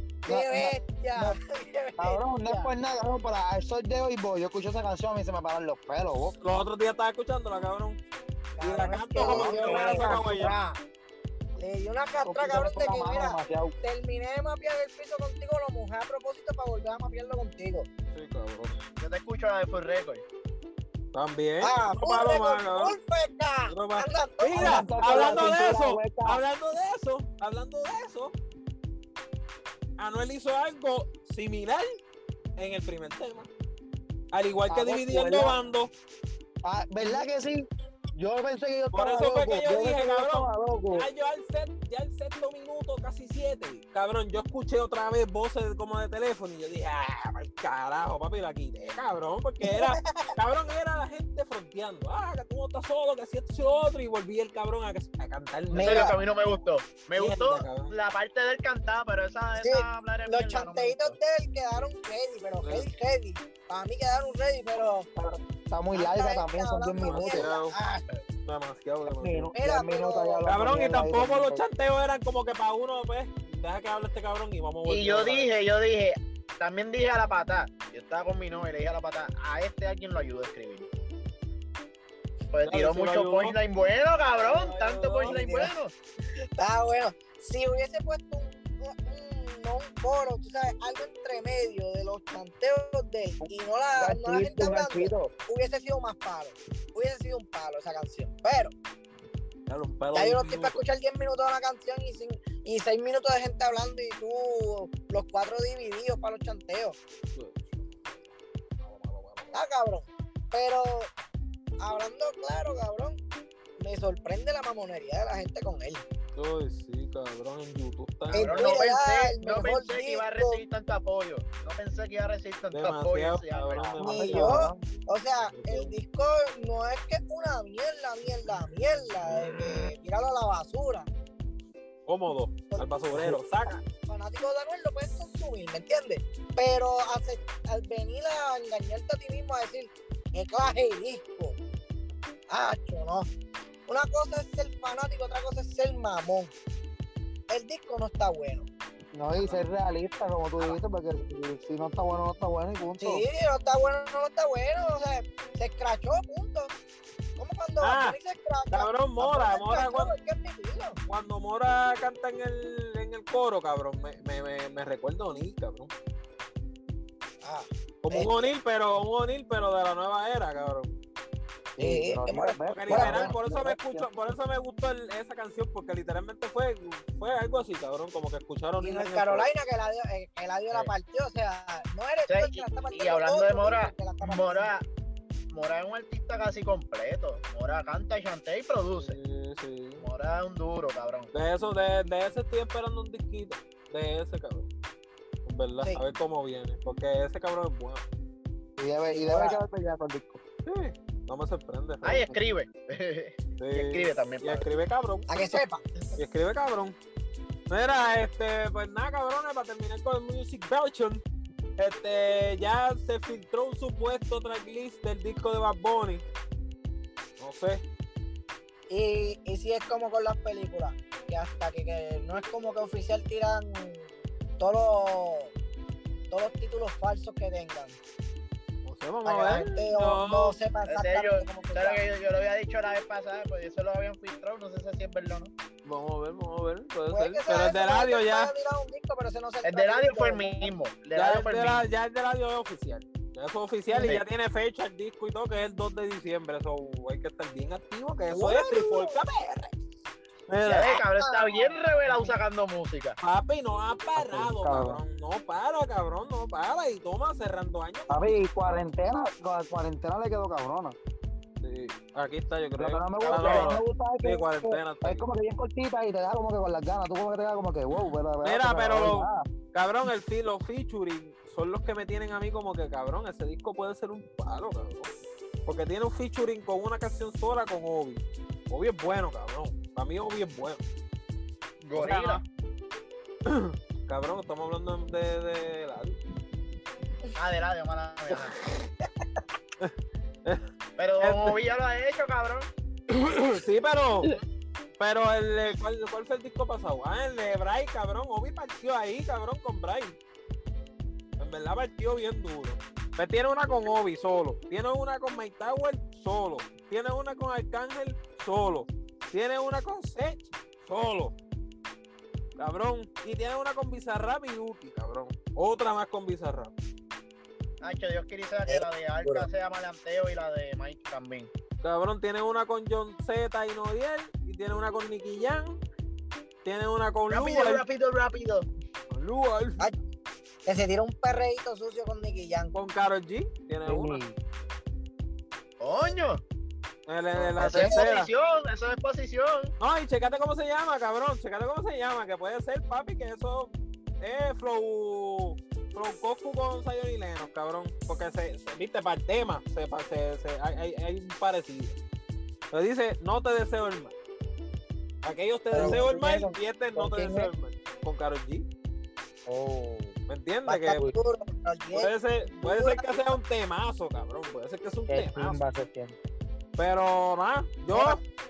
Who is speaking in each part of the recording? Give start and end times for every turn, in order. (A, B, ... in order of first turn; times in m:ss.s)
0:00.3-0:01.4 A
0:00.3-0:02.7 B
0:02.0-0:06.4 A
0:06.4-0:08.0 C
0:08.6-0:10.8 B
0:08.6-0:10.6 C
0:09.2-0:10.2 A
0:09.3-0:10.2 D
0:11.6-0:17.9 B
0:12.2-0:13.7 A
0:18.1-0:18.8 C
0:19.0-0:20.2 D
0:21.1-0:23.0 C
0:21.6-0:25.8 B
0:23.7-0:28.4 C
0:24.6-0:26.4 A
0:30.0-0:31.9 C
0:32.6-0:33.5 C
0:34.3-0:35.9 C
0:34.7-0:35.6 A
0:36.6-0:41.1 A
0:38.9-0:56.2 C
0:49.6-0:50.4 B
0:55.7-0:56.2 B
0:55.7-1:01.2 D
0:57.2-0:57.9 C
0:59.6-1:05.1 B
1:02.6-1:02.9 C
1:05.2-1:07.5 A
1:05.9-1:08.0 B
1:07.0-1:07.8 C
1:08.5-1:09.5 C
1:09.0-1:11.6 A
1:09.6-1:10.6 B
1:10.5-1:15.5 C
1:14.8-1:20.9 D
1:22.5-1:25.9 D
1:22.6-1:23.6 C
1:24.3-1:25.5 C
1:25.2-1:25.7 B
1:26.6-1:38.8 B
1:33.4-1:35.3 A
1:39.7-1:40.8 C
1:40.1-1:47.0 B
1:47.4-1:49.6 C
1:49.5-1:51.1 B
1:51.8-1:53.2 B
1:53.8-1:56.0 B
1:56.4-1:58.8 C
1:58.3-2:00.6 B
1:58.3-2:04.0 D
2:02.7-2:04.7 C
2:04.0-2:04.8 A
2:04.0-2:11.1 B
2:05.4-2:05.9 C
2:12.1-2:13.8 C
2:13.1-2:13.4 A
2:13.7-2:21.6 B
2:22.5-2:23.3 B
2:23.9-2:26.5 B
2:27.5-2:28.7 B
2:29.1-2:33.2 A
2:33.0-2:36.7 B
2:37.4-2:41.0 B
2:37.8-2:38.2 C
2:38.7-2:40.1 C
2:41.1-2:45.9 C
2:47.4-2:48.5 B
2:48.0-2:51.0 C
2:51.8-2:54.1 A
2:51.8-2:53.3 B
2:52.7-2:59.5 C
2:58.8-3:04.7 B
3:02.3-3:04.8 D
3:05.5-3:09.2 D
3:09.0-3:10.0 C
3:10.0-3:11.3 D
3:11.3-3:14.7 C
3:15.5-3:18.0 C
3:18.8-3:20.4 A
3:19.1-3:19.6 B
3:20.7-3:22.3 C
3:22.0-3:24.7 D
3:23.6-3:25.6 C
3:25.3-3:26.1 B
3:26.2-3:27.0 C
3:27.7-3:31.2 C
3:31.8-3:36.2 C
3:37.4-3:37.8 C
3:38.9-3:45.5 B
3:46.3-3:48.0 B
3:48.8-3:50.6 C
3:49.2-3:52.0 B
3:50.9-3:55.5 D
3:55.8-3:58.5 C
3:57.1-4:00.7 B
3:59.6-4:01.8 D
4:01.2-4:09.7 C
4:04.0-4:04.2 D
4:08.3-4:09.2 B
4:10.5-4:11.0 C
4:10.6-4:13.2 D
4:10.8-4:12.4 B
4:13.2-4:18.4 C
4:14.2-4:15.0 A
4:18.1-4:21.0 A
4:21.6-4:25.3 C
4:22.8-4:29.5 A
4:23.2-4:23.8 D
4:27.9-4:35.1 C
4:35.7-4:40.8 C
4:41.8-4:42.4 D
4:42.0-4:42.4 C
4:43.4-4:46.2 C
4:47.4-4:48.6 D
4:51.0-4:52.7 D
4:51.2-4:51.6 C
4:53.1-4:54.3 C
4:55.0-5:00.2 C
5:01.4-5:11.4 C
5:12.6-5:16.7 C
5:17.8-5:21.5 D
5:18.7-5:19.5 B
5:21.8-5:25.8 C
5:26.6-5:27.8 C
5:27.3-5:28.7 D
5:29.1-5:29.9 C
5:30.7-5:32.8 B
5:32.7-5:34.2 C
5:33.9-5:34.4 A
5:35.8-5:36.4 D
5:37.1-5:38.3 C
5:37.3-5:39.7 D
5:37.7-5:38.1 B
5:39.8-5:52.0 C
5:52.7-5:54.1 C
5:55.2-5:58.7 C
5:55.7-5:56.3 B
5:55.7-5:57.5 A
5:59.5-6:00.2 A
6:00.3-6:01.0 C
6:00.7-6:03.4 B
6:01.9-6:05.6 C
6:05.1-6:06.2 A
6:06.8-6:08.2 C
6:07.9-6:08.2 B